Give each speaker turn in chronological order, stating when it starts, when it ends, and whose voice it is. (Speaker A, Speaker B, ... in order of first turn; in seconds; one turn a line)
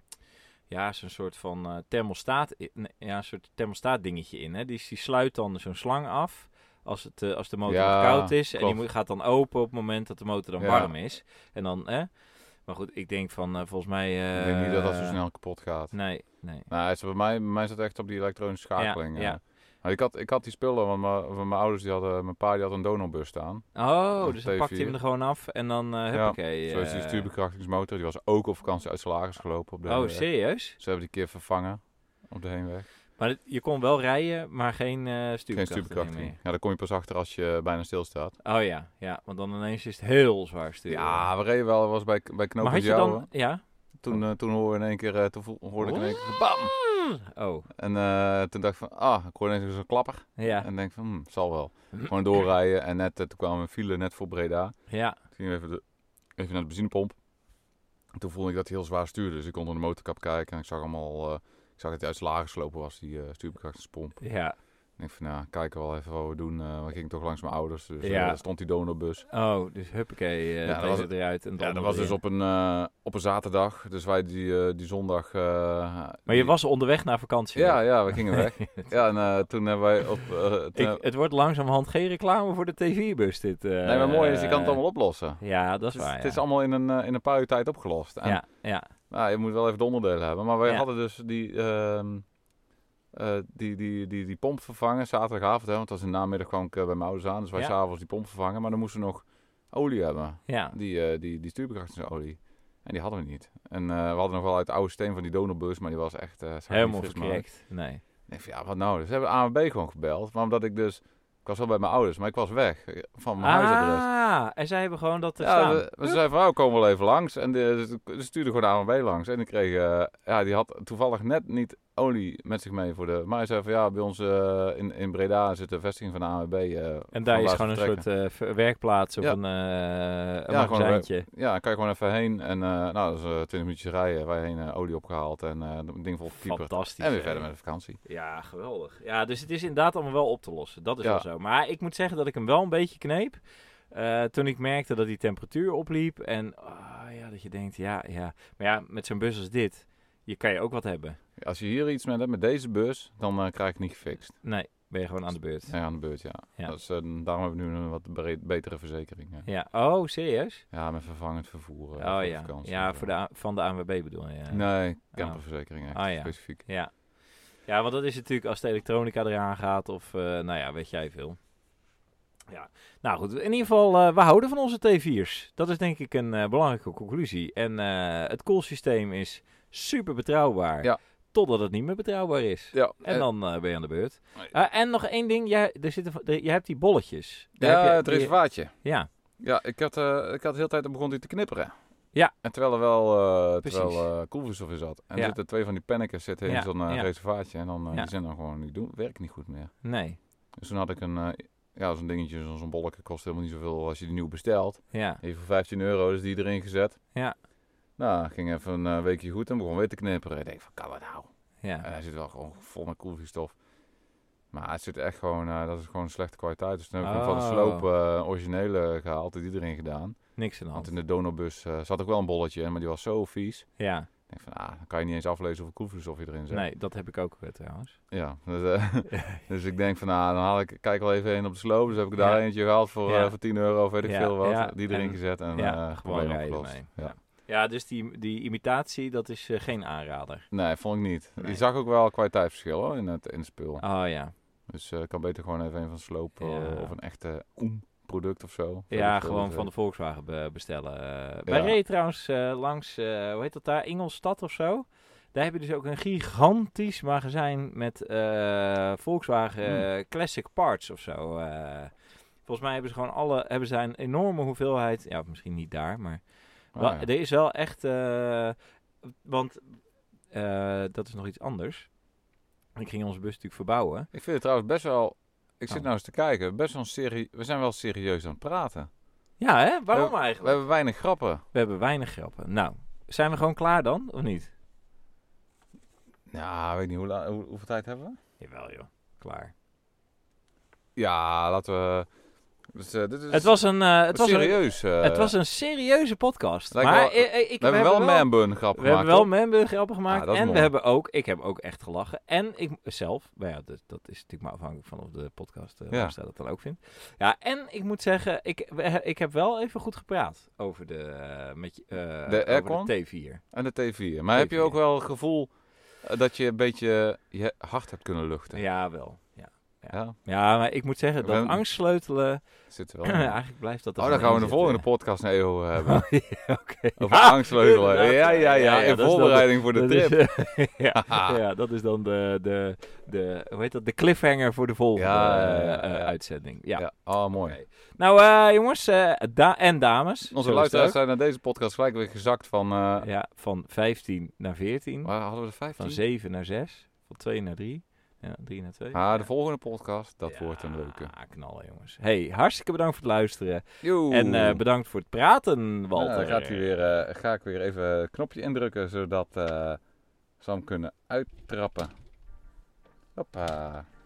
Speaker A: 0.7-15.2
Speaker B: 7.7-8.8
Speaker B: 10.6-10.9
Speaker B: 14.3-16.0
Speaker A: 15.9-16.7
Speaker B: 16.7-24.9
Speaker A: 18.8-19.4
Speaker A: 23.7-27.3
Speaker B: 26.1-32.9
Speaker A: 29.9-30.8
Speaker A: 33.2-36.4
Speaker B: 35.5-38.4
Speaker A: 38.4-41.3
Speaker B: 40.9-43.3
Speaker A: 42.6-43.6
Speaker B: 44.0-46.7
Speaker A: 45.8-47.7
Speaker B: 47.8-54.7
Speaker A: 50.4-50.6
Speaker A: 54.9-55.2
Speaker B: 55.3-55.8
Speaker B: 56.4-57.2
Speaker B: 58.1-64.2
Speaker A: 64.2-64.5
Speaker B: 65.0-69.2
Speaker A: 68.0-68.4
Speaker A: 69.3-72.2
Speaker B: 70.6-76.5
Speaker A: 76.3-78.9
Speaker B: 77.5-81.0
Speaker A: 80.7-84.8
Speaker B: 83.8-88.4
Speaker A: 85.4-86.4
Speaker A: 88.2-88.9
Speaker B: 89.1-92.2
Speaker B: 93.1-107.5
Speaker A: 100.5-100.7
Speaker A: 106.7-108.0
Speaker B: 108.3-114.0
Speaker A: 113.4-116.2
Speaker B: 115.4-128.1
Speaker A: 127.1-131.3
Speaker B: 130.5-138.0
Speaker A: 136.4-137.5
Speaker A: 138.0-143.4
Speaker A: 143.9-151.2
Speaker B: 151.4-154.4
Speaker A: 154.3-155.8
Speaker B: 155.7-159.5
Speaker A: 159.4-160.6
Speaker B: 160.7-163.1
Speaker A: 162.0-165.4
Speaker B: 164.5-166.6
Speaker A: 165.9-166.9
Speaker A: 167.6-171.4
Speaker A: 172.5-189.1
Speaker B: 182.7-183.3
Speaker B: 187.6-188.8
Speaker B: 189.4-191.7
Speaker B: 192.4-199.7
Speaker A: 193.6-194.1
Speaker A: 196.4-197.1
Speaker A: 199.8-200.2
Speaker B: 200.5-207.0
Speaker A: 204.9-205.2
Speaker B: 208.0-211.3
Speaker A: 211.6-211.9
Speaker B: 211.8-213.6
Speaker B: 214.5-223.7
Speaker A: 217.0-217.8
Speaker A: 220.3-220.9
Speaker A: 223.8-224.1
Speaker B: 224.3-226.6
Speaker A: 226.5-228.0
Speaker B: 228.1-237.1
Speaker A: 229.1-229.4
Speaker A: 232.2-232.4
Speaker A: 233.1-233.3
Speaker A: 234.0-240.5
Speaker B: 240.5-243.8
Speaker A: 243.8-244.3
Speaker B: 244.7-249.7
Speaker A: 246.4-246.9
Speaker A: 248.9-261.9
Speaker B: 251.5-251.8
Speaker A: 262.4-266.2
Speaker B: 266.7-267.1
Speaker A: 266.7-269.8
Speaker A: 270.3-271.9
Speaker A: 272.8-274.1
Speaker B: 274.1-278.9
Speaker A: 279.4-280.6
Speaker B: 279.9-281.4
Speaker A: 281.5-284.5
Speaker B: 286.3-288.2
Speaker A: 288.4-289.5
Speaker B: 290.9-292.1
Speaker B: 292.7-293.6
Speaker A: 293.3-313.4
Speaker B: 294.1-295.3
Speaker B: 296.7-299.3
Speaker B: 300.1-300.7
Speaker B: 312.2-315.5
Speaker A: 314.3-314.8
Speaker B: 316.0-318.6
Speaker A: 318.5-322.4
Speaker B: 319.9-320.2
Speaker B: 321.2-321.6
Speaker B: 322.7-323.4
Speaker A: 323.0-324.9
Speaker B: 324.0-326.1
Speaker A: 325.8-341.0
Speaker B: 327.0-330.3
Speaker B: 330.9-331.4
Speaker B: 334.9-336.1
Speaker B: 336.7-337.6
Speaker B: 340.3-343.1
Speaker A: 343.0-345.1
Speaker B: 345.0-346.0
Speaker A: 345.7-349.3
Speaker B: 348.9-351.1
Speaker A: 350.3-356.7
Speaker B: 353.8-354.6
Speaker B: 355.9-359.8
Speaker B: 360.4-361.9
Speaker B: 363.1-363.9